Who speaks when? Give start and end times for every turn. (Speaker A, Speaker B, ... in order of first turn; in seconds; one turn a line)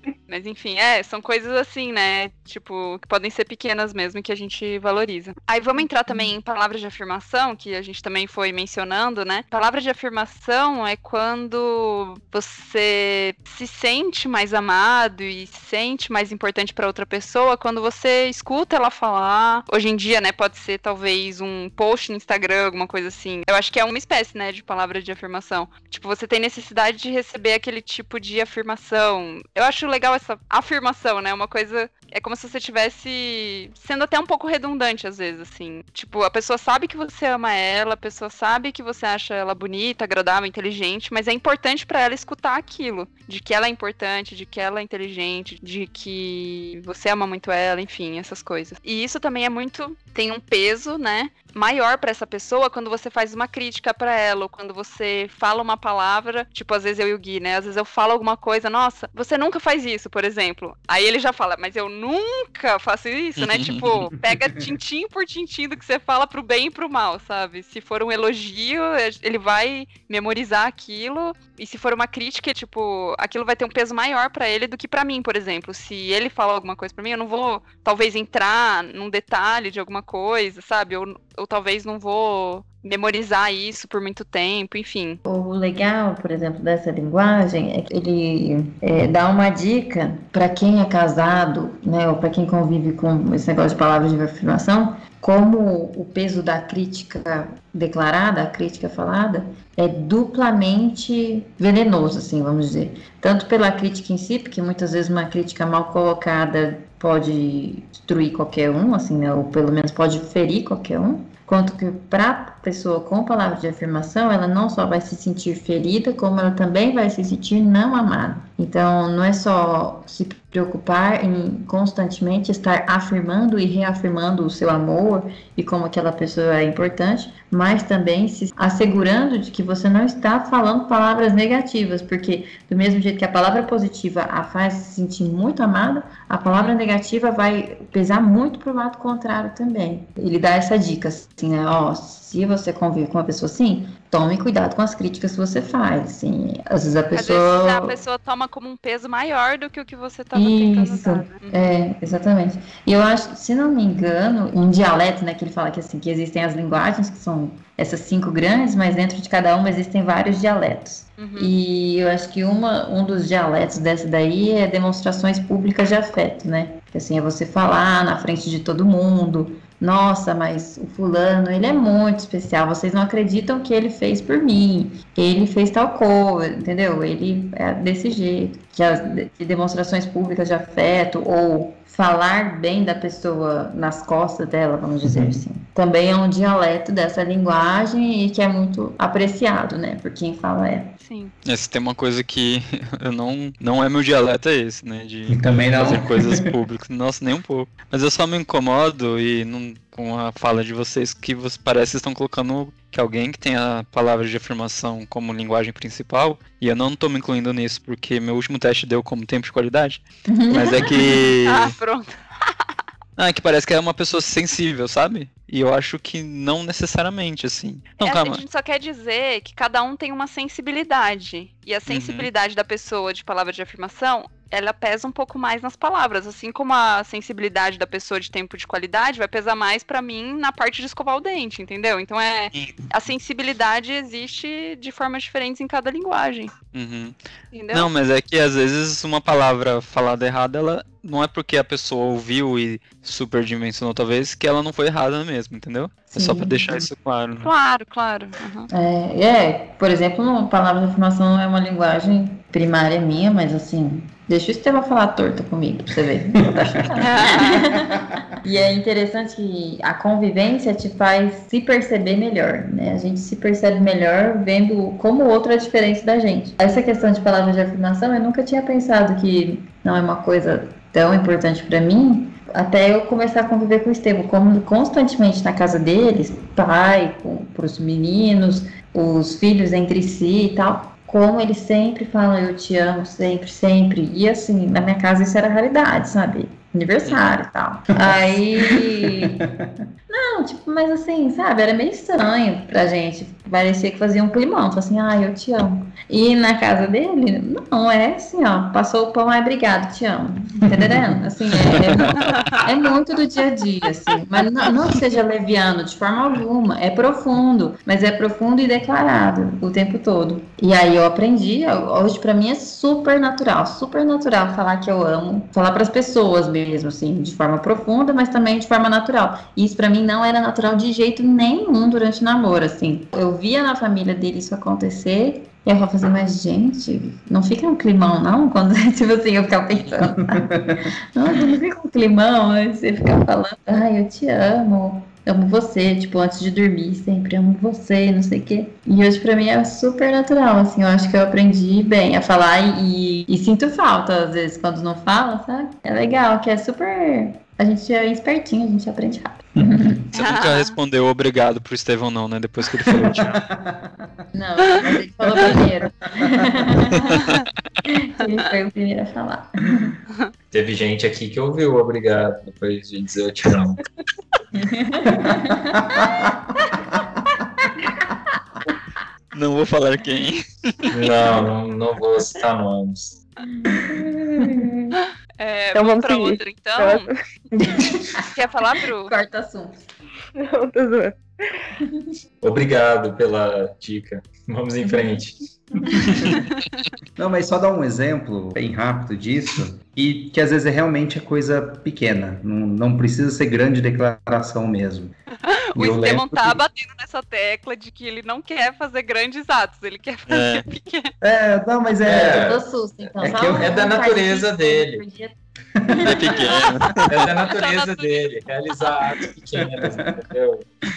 Speaker A: 0.3-85.2
Speaker B: 63.4-64.1
Speaker C: 85.2-148.0
Speaker A: 136.5-136.7
Speaker A: 147.1-151.7
Speaker C: 150.3-190.9
Speaker A: 161.2-161.5
Speaker D: 185.1-185.4
Speaker A: 191.0-191.3
Speaker B: 191.4-211.7
Speaker D: 195.3-196.5
Speaker C: 210.3-211.2
Speaker A: 211.4-212.7
Speaker B: 213.2-218.4
Speaker A: 218.0-236.5
Speaker B: 221.9-222.3
Speaker B: 232.5-232.8
Speaker B: 236.7-237.2
Speaker A: 237.5-237.9
Speaker B: 237.7-247.5
Speaker C: 246.1-246.9
Speaker A: 247.4-248.7
Speaker C: 248.7-289.4
Speaker D: 256.4-256.9
Speaker A: 256.9-257.6
Speaker D: 287.9-289.6
Speaker C: 290.1-350.0
Speaker D: 300.7-301.1
Speaker A: 302.2-302.6
Speaker D: 330.2-330.8
Speaker A: 331.3-331.6
Speaker A: 350.1-350.7
Speaker B: 350.1-353.4
Speaker D: 352.9-354.0
Speaker C: 354.3-357.2
Speaker A: 357.2-357.4
Speaker C: 357.9-359.9
Speaker E: 360.5-363.8
Speaker C: 364.6-366.8
Speaker D: 365.1-366.3
Speaker B: 369.3-371.1
Speaker E: 370.9-373.2
Speaker C: 373.5-374.9
Speaker A: 375.4-377.1
Speaker F: 375.7-377.8
Speaker C: 377.6-378.3
Speaker A: 378.3-379.1
Speaker C: 379.0-379.8
Speaker F: 380.4-381.5
Speaker C: 381.8-382.1
Speaker E: 382.4-385.9
Speaker D: 385.9-386.4
Speaker A: 386.3-386.6
Speaker D: 387.1-395.1
Speaker A: 395.4-401.1
Speaker D: 395.8-396.6
Speaker B: 400.3-400.7
Speaker D: 401.2-402.6
Speaker E: 402.0-402.6
Speaker C: 402.2-406.5
Speaker D: 403.2-403.8
Speaker E: 403.5-405.0
Speaker D: 405.8-406.1
Speaker B: 406.0-407.3
Speaker E: 407.1-410.7
Speaker A: 407.4-408.3
Speaker D: 409.6-410.1